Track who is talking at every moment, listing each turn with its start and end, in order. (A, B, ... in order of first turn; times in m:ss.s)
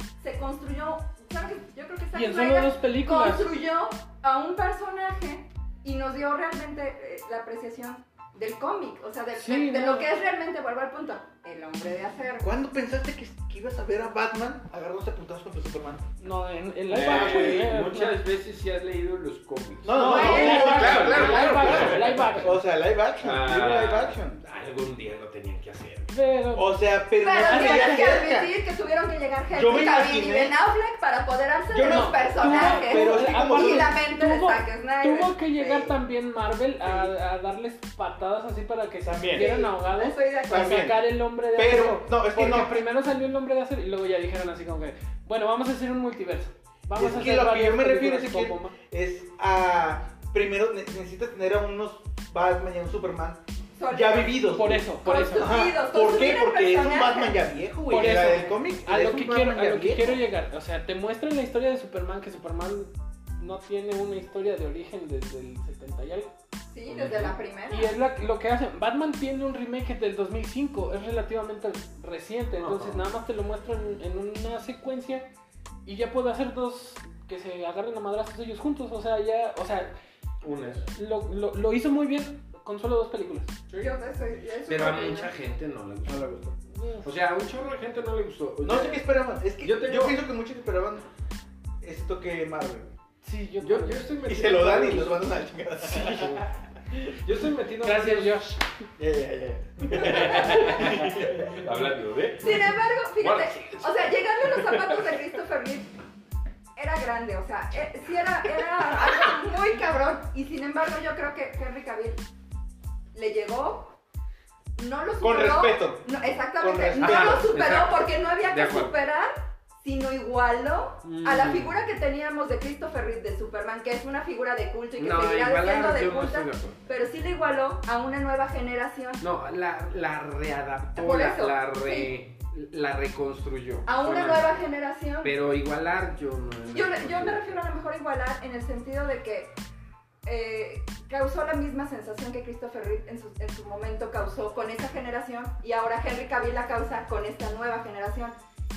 0:00.2-0:12.5 A
0:02.1-0:03.6 B
0:09.4-0:10.1 B
0:12.4-0:16.0 C
0:16.2-0:18.2 B
0:16.9-0:22.5 D
0:17.1-0:17.6 C
0:19.8-0:24.4 C
0:19.9-0:22.6 B
0:20.0-0:21.4 A
0:23.2-0:26.1 D
0:26.1-0:26.7 B
0:26.5-0:28.5 C
0:27.2-0:35.9 A
0:27.4-0:28.1 B
0:29.5-0:30.5 C
0:31.7-0:34.0 C
0:31.8-0:48.7 B
0:39.0-0:39.5 C
0:39.3-0:40.8 A
0:40.5-0:41.0 C
0:41.5-0:42.8 C
0:46.9-1:00.2 C
0:53.8-0:54.5 A
0:54.5-0:55.5 B
0:55.0-0:57.4 A
0:57.9-1:06.3 B
1:06.7-1:07.9 A
1:06.9-1:07.3 D
1:07.7-1:15.3 B
1:12.6-1:13.1 D
1:15.8-1:19.9 B
1:20.4-1:20.8 D
1:20.9-1:23.7 B
1:23.8-1:25.3 A
1:24.7-1:26.5 D
1:26.0-1:26.5 C
1:26.7-1:27.1 B
1:27.0-1:29.0 D
1:28.6-1:31.0 C
1:29.6-1:30.2 D
1:31.8-1:33.0 C
1:33.2-1:34.1 B
1:33.6-1:35.3 D
1:34.2-1:36.4 C
1:35.8-1:36.4 B
1:36.0-1:36.4 D
1:37.0-1:38.4 D
1:37.8-1:38.8 B
1:39.0-1:41.6 C
1:39.9-1:45.2 D
1:40.6-1:40.9 B
1:42.4-1:45.9 A
1:46.8-1:52.2 A
1:53.1-1:54.0 A
1:54.8-2:09.2 A
1:55.2-1:57.5 C
1:57.0-1:58.9 D
2:01.0-2:01.8 D
2:05.0-2:06.8 D
2:09.2-2:14.6 D
2:11.0-2:12.1 A
2:13.8-2:15.3 A
2:15.2-2:17.6 D
2:16.7-2:19.5 A
2:20.2-2:28.4 A